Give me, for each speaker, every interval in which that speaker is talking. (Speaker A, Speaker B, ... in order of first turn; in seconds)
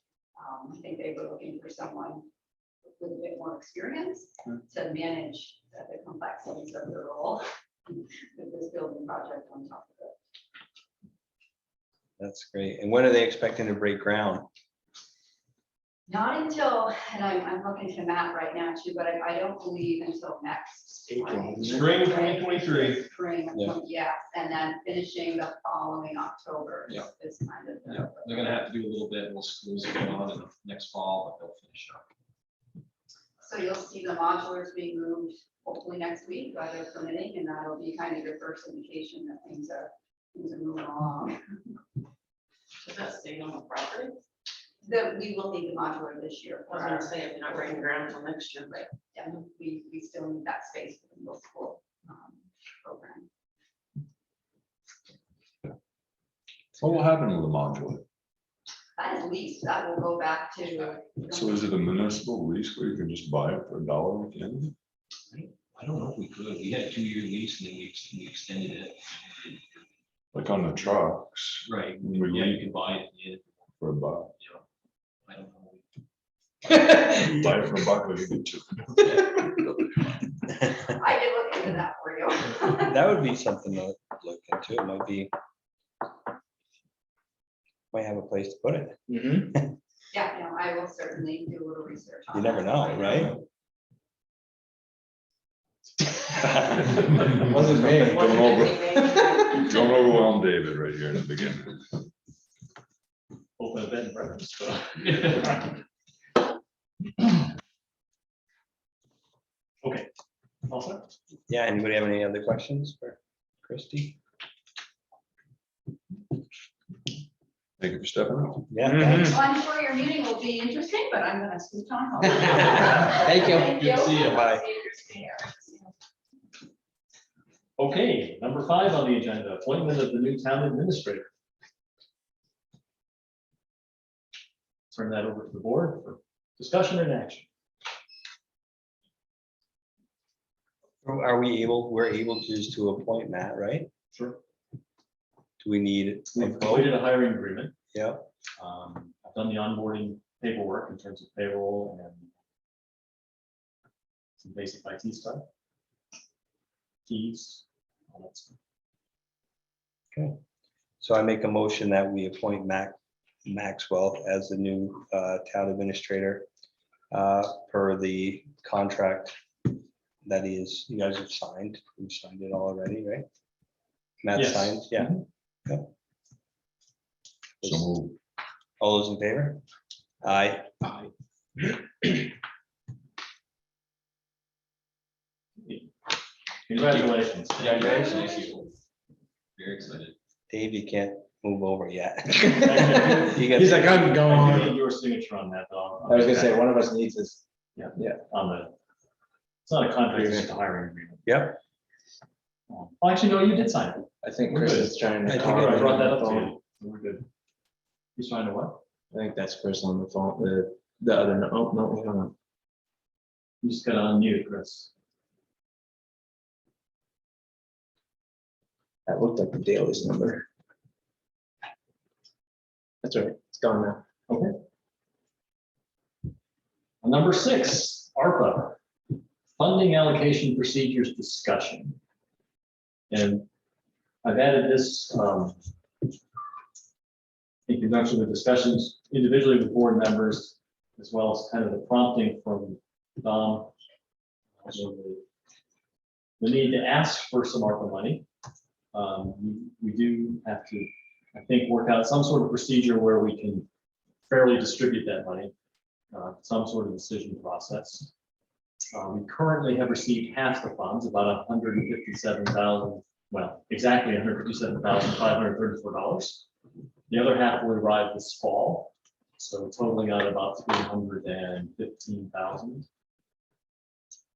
Speaker A: 0.4-2.3, 3.0-10.2, 16.1-28.6, 33.4-41.4, 44.8-48.2, 49.0-53.3, 59.0-61.8, 80.8-83.0, 90.1-93.3, 119.1-125.9, 188.3-188.6
Speaker B: 12.2-14.5, 82.8-85.3, 87.9-89.7, 92.3-93.4, 96.3-97.2, 111.5-114.2, 118.7-119.4, 122.6-124.7, 141.0-143.9, 145.6-147.0, 147.9-148.3, 161.0-166.5, 167.1-169.3, 170.2-173.3, 174.2-175.1, 177.6-177.9, 178.8-179.6, 180.2-180.8, 190.5-194.2, 201.3-201.6, 205.3-206.0
Speaker C: 21.1-21.9, 89.1-89.6, 97.4-98.4, 193.5-194.8, 196.1-197.4, 200.1-200.5, 204.2-206.6, 209.1-212.3, 219.1-220.5, 223.0-224.0
Speaker D: 21.7-23.0, 103.6-105.8, 109.8-110.1, 110.7-111.1, 127.8-131.2, 134.9-137.5, 144.1-144.4, 146.3-147.7, 148.6-152.3, 154.4-155.4, 157.1-158.6, 174.3-175.2, 185.6-185.9, 186.7-188.1, 192.7-196.7, 197.8-198.7, 199.7-201.3, 202.7-207.3, 208.2-208.8, 213.6-214.9, 224.3-224.6, 227.0-228.8, 229.5-232.0, 233.1-233.5, 234.2-235.6, 237.7-243.7, 244.6-245.2, 246.4-248.2, 248.9-253.7, 254.3-255.5, 256.1-258.1, 258.9-266.5, 267.1-272.9
Speaker E: 27.9-32.1, 65.3-69.9, 71.6-73.7, 74.3-74.6, 75.3-75.9, 76.6-77.3, 187.6-188.8, 189.6-190.2
Speaker F: 42.8-44.2, 46.7-48.9, 98.1-99.2
Speaker G: 56.8-58.0, 61.3-64.7, 70.3-72.7, 73.8-74.3, 76.9-79.0, 97.8-102.0, 117.8-119.1, 177.6-178.2